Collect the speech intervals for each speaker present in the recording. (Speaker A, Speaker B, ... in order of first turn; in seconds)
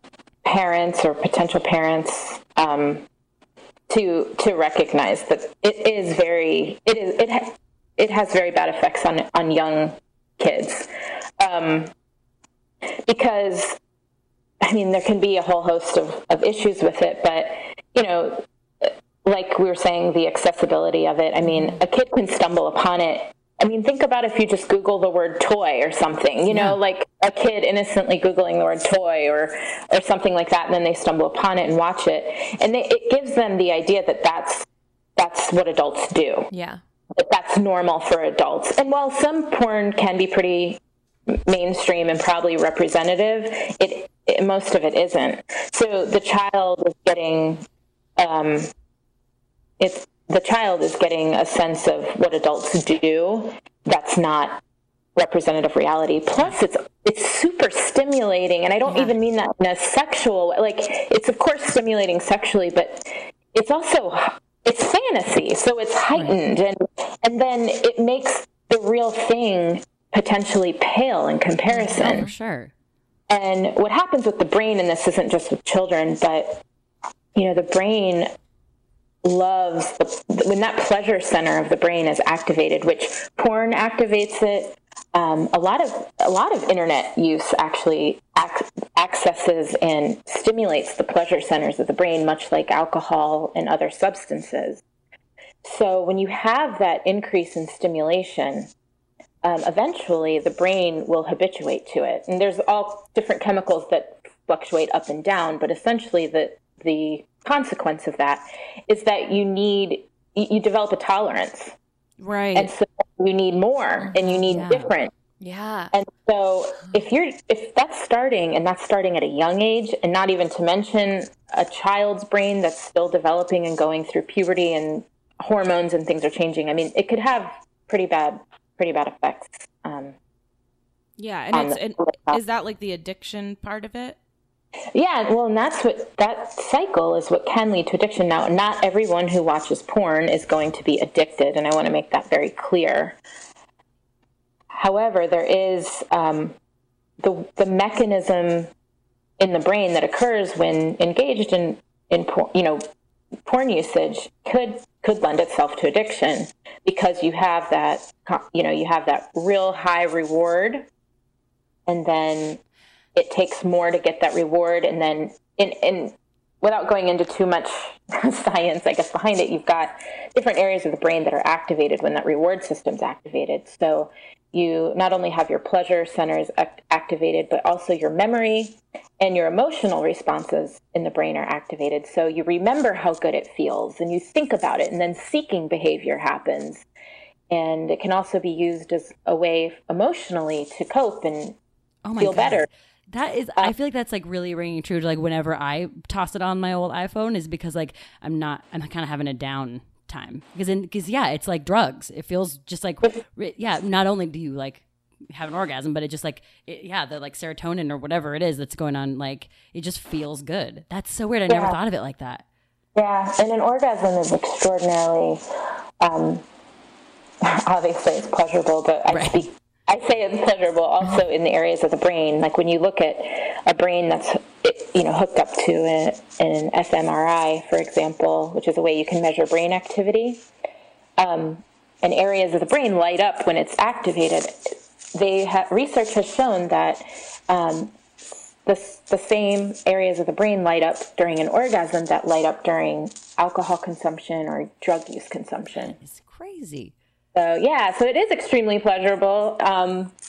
Speaker A: 0.4-3.0, 3.9-11.9, 13.0-13.8, 14.6-36.5, 37.1-40.8, 41.3-47.6, 48.2-48.7, 49.8-54.6, 55.1-72.3, 73.3-76.6, 77.3-78.3, 79.2-94.8, 95.6-98.7, 99.4-111.7, 112.5-115.1, 115.9-130.2, 131.5-132.4, 134.9-143.2, 144.7-146.6, 147.2-148.7, 149.4-152.8, 153.4-160.9, 161.9-162.6, 163.1-186.8, 187.5-191.6, 192.2-192.7, 211.5-211.8, 212.9-215.4, 216.0-216.4, 217.4-230.4, 231.2-237.9, 238.6-246.0, 247.3-250.1
Speaker B: 21.4-21.8, 36.5-36.8, 58.9-59.1, 71.7-72.3, 114.0-114.5, 115.4-115.9
Speaker C: 71.9-72.7, 114.5-114.9, 192.0-212.4, 219.1-219.4, 245.8-246.9
Speaker D: 112.2-112.7, 131.2-134.2